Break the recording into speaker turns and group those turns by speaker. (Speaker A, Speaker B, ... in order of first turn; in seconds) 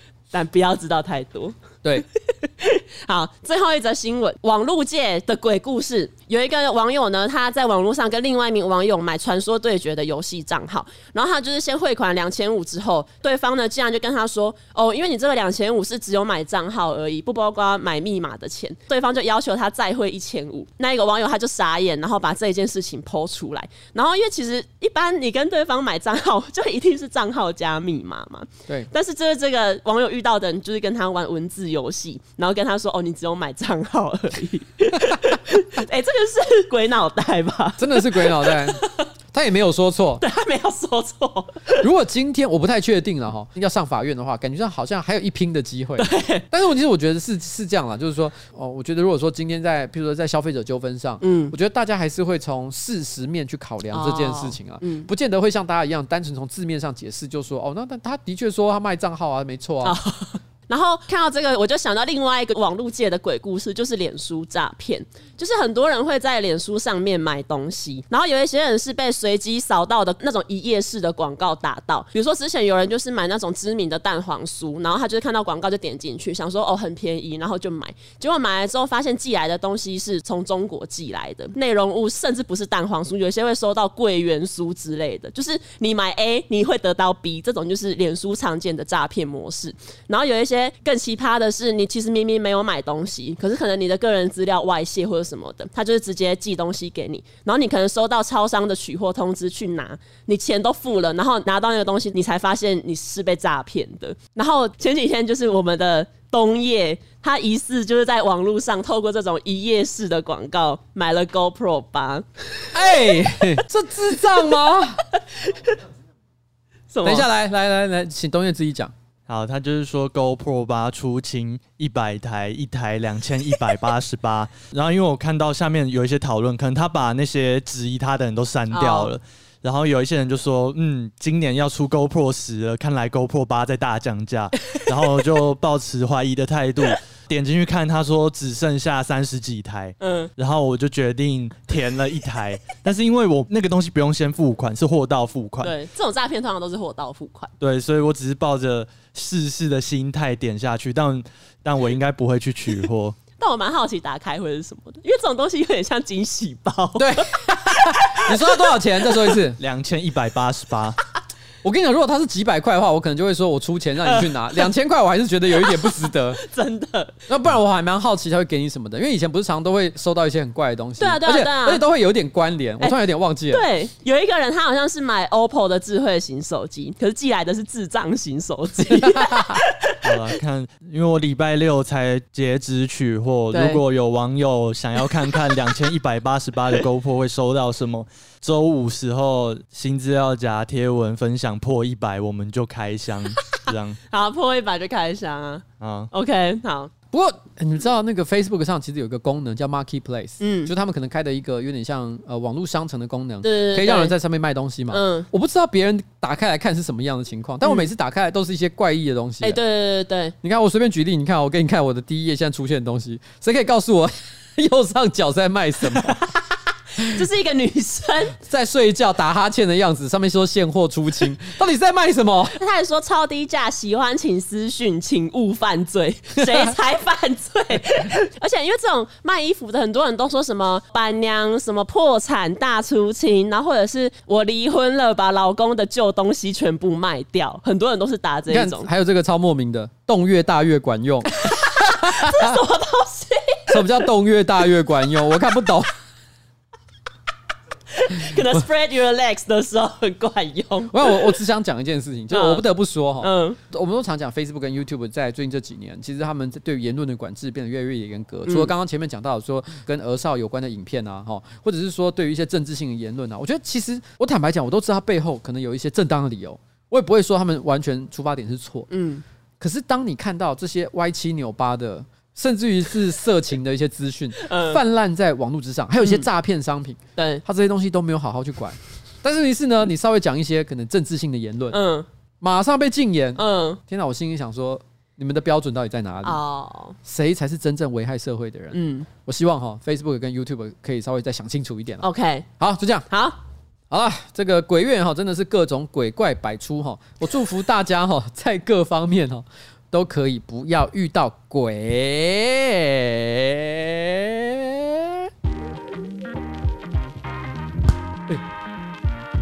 Speaker A: 0.3-39.1, 40.2-41.9, 46.0-46.4, 51.2-51.5, 53.9-55.1, 59.8-113.2, 114.2-114.5, 115.1-115.8, 116.9-117.3, 128.7-129.1, 140.0-140.3, 145.6-147.5, 153.4-159.4, 164.0-164.7, 165.6-167.2, 171.0-171.8, 173.5-179.9, 183.5-183.8, 194.1-196.9, 200.4-200.7, 203.4-204.1, 204.9-205.3, 209.4-210.3, 216.0-216.5, 217.0-218.4, 222.5-238.9, 241.4-244.1, 247.9-251.4, 252.3-252.6, 253.2-253.6, 258.4-258.7, 268.9-269.2, 274.4-274.8, 276.0-276.3, 277.2-277.4, 281.7-282.1, 283.4-283.8, 286.2-286.9, 288.7-289.1, 292.0-292.5, 293.1-293.4
Speaker B: 37.8-38.8, 39.3-40.2, 41.8-60.0, 112.7-115.0, 117.0-118.9, 157.0-159.6, 161.6-166.4, 167.3-173.6, 179.0-179.6, 197.1-209.6, 210.4-216.2, 218.4-222.6, 238.5-242.6, 243.7-245.9, 248.3-248.6, 250.9-268.9, 269.6-281.8, 282.4-286.4, 287.0-292.0, 292.6-293.1, 293.9-305.3
Speaker C: 119.3-145.7, 147.6-153.2, 159.6-161.0, 180.0-194.0, 195.8-196.1